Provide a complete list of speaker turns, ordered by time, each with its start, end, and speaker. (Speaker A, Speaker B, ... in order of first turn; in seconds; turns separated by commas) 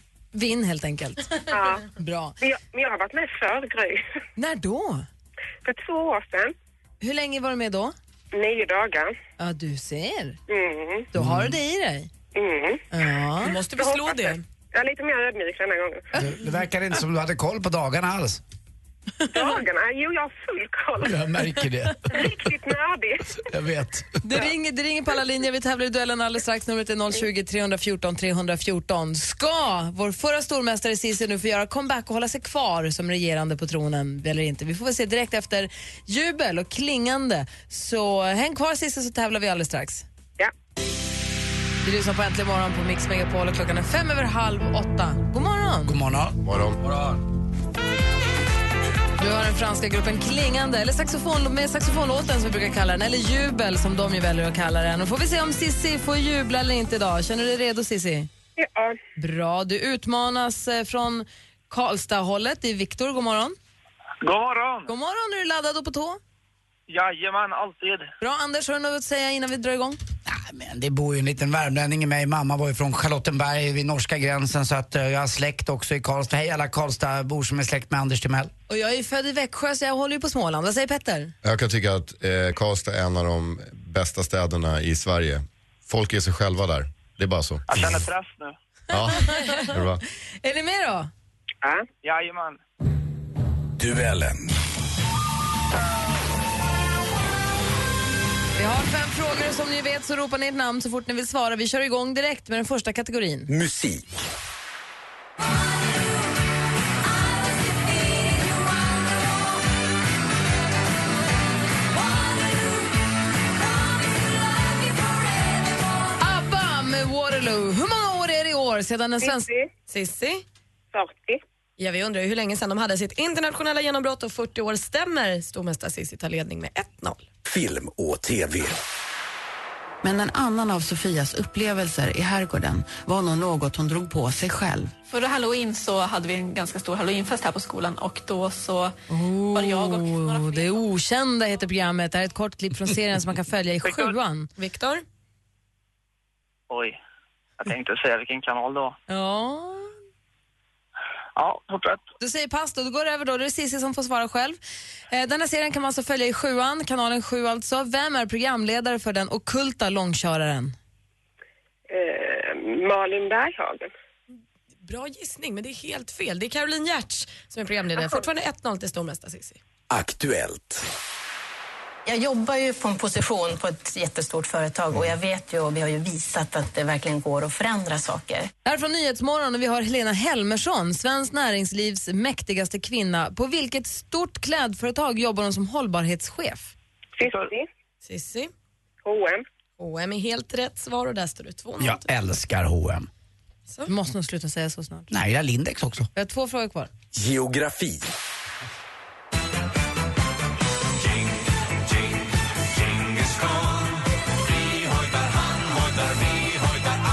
Speaker A: 0.3-2.4, Speaker B: 1.5-1.9, Speaker B: 2.4-4.0, Speaker A: 4.4-5.1, Speaker B: 5.6-6.5, Speaker A: 7.0-7.9, Speaker B: 8.3-9.1, Speaker A: 9.4-10.4, Speaker B: 10.5-11.1, Speaker A: 11.1-12.1, Speaker C: 11.2-11.6, Speaker B: 12.3-12.9, Speaker A: 12.9-13.6, Speaker D: 13.4-14.4, Speaker B: 13.7-16.1, Speaker C: 16.1-18.4, Speaker B: 19.3-21.2, Speaker C: 21.0-22.4, Speaker B: 22.1-23.4, Speaker C: 23.4-24.4, Speaker A: 24.2-40.0, Speaker A: 41.8-46.0, Speaker C: 45.9-46.4, Speaker E: 46.4-46.8, Speaker A: 49.2-58.3, Speaker B: 58.6-59.0, Speaker A: 59.2-63.6, Speaker F: 64.2-64.9, Speaker A: 64.9-66.2, Speaker F: 66.9-68.1, Speaker A: 68.2-70.0, Speaker C: 70.3-78.5, Speaker A: 78.7-81.3, Speaker E: 81.4-88.0, Speaker F: 87.7-88.5, Speaker E: 88.9-90.0, Speaker A: 89.1-89.8, Speaker A: 90.4-91.1, Speaker F: 92.0-92.6, Speaker G: 93.8-94.5, Speaker A: 98.6-103.5, Speaker G: 103.5-104.1, Speaker A: 116.2-119.5, Speaker B: 119.2-119.7, Speaker D: 119.9-120.4, Speaker B: 120.9-121.4, Speaker D: 121.8-127.2, Speaker G: 127.5-128.8, Speaker H: 130.0-134.9, Speaker I: 135.1-139.0, Speaker A: 139.1-144.5, Speaker I: 139.5-140.8, Speaker F: 143.8-144.1, Speaker D: 144.6-145.1, Speaker F: 146.7-147.0, Speaker F: 147.6-149.0, Speaker A: 149.1-149.9, Speaker F: 151.4-152.0, Speaker A: 152.2-154.6, Speaker A: 155.1-160.8, Speaker B: 161.9-163.9, Speaker D: 164.8-169.6, Speaker G: 169.9-170.8, Speaker J: 172.1-178.5, Speaker A: 178.7-186.7, Speaker B: 187.2-187.7, Speaker F: 187.2-187.5, Speaker D: 188.0-188.5, Speaker B: 189.1-189.4, Speaker D: 189.8-192.1, Speaker C: 191.8-193.1, Speaker A: 193.9-195.1, Speaker C: 195.1-196.1, Speaker A: 196.2-196.9, Speaker G: 197.1-198.1